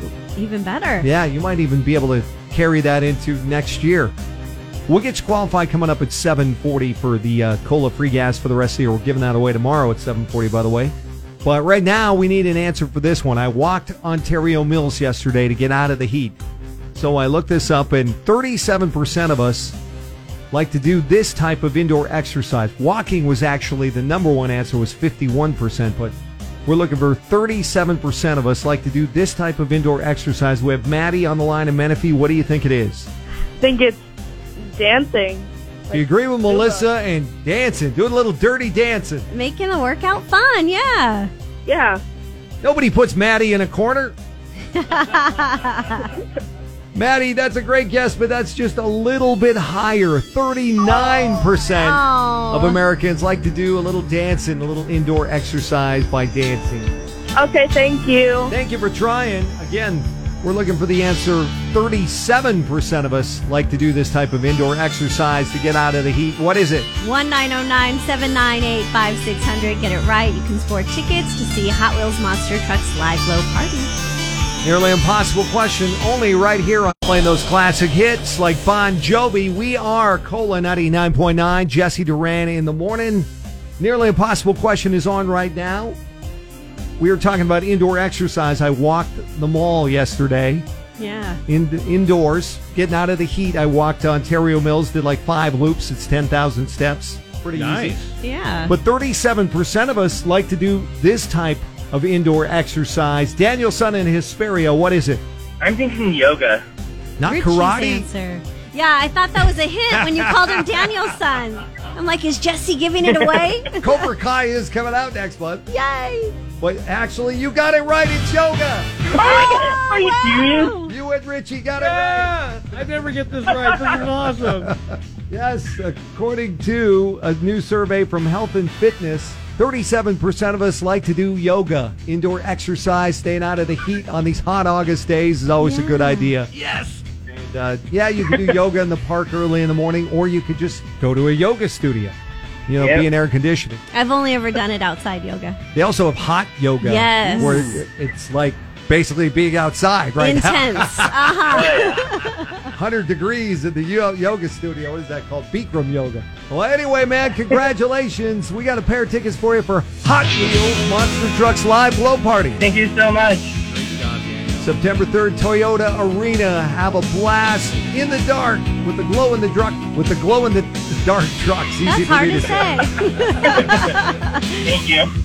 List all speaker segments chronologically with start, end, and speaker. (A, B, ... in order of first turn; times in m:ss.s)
0:00.4-0:01.1 A
0:01.0-0:04.1 B
0:04.9-0:16.4 B
0:16.9-0:19.8 B
0:20.5-0:26.1 B
0:26.6-0:33.1 B
0:33.6-0:34.0 C
0:34.6-0:36.8 C
0:35.9-0:39.3 B
0:39.3-0:41.3 A
0:41.6-0:42.0 C
0:42.6-0:44.1 B
0:44.7-0:46.1 A
0:46.9-0:56.9 B
0:51.7-0:52.8 A
0:57.4-0:58.5 C
0:58.5-1:06.9 B
1:07.0-1:13.9 A
1:14.6-1:26.0 B
1:27.0-1:30.6 B
1:31.0-1:31.4 A
1:31.5-1:38.0 B
1:37.5-1:38.2 D
1:38.2-1:38.7 A
1:38.7-1:45.2 B
1:45.6-1:46.6 E
1:47.2-1:48.1 B
1:47.2-1:54.1 A
1:49.9-1:50.9 B
1:53.8-1:55.7 B
1:55.7-1:56.4 A
1:56.6-1:58.9 B
1:59.1-2:00.7 E
1:59.1-2:00.9 A
2:00.8-2:02.8 B
2:01.8-2:04.7 D
2:03.5-2:16.5 B
2:15.6-2:16.3 A
2:16.5-2:17.0 D
2:17.3-2:22.2 B
2:22.7-2:23.8 B
2:22.8-2:23.1 E
2:23.9-2:25.6 A
2:25.7-2:31.6 B
2:26.8-2:27.8 A
2:30.2-2:32.7 A
2:31.5-2:32.0 E
2:32.7-2:42.6 B
2:42.6-2:43.6 E
2:43.6-2:44.7 D
2:44.6-2:52.9 B
2:51.8-2:54.6 A
2:54.6-2:55.1 E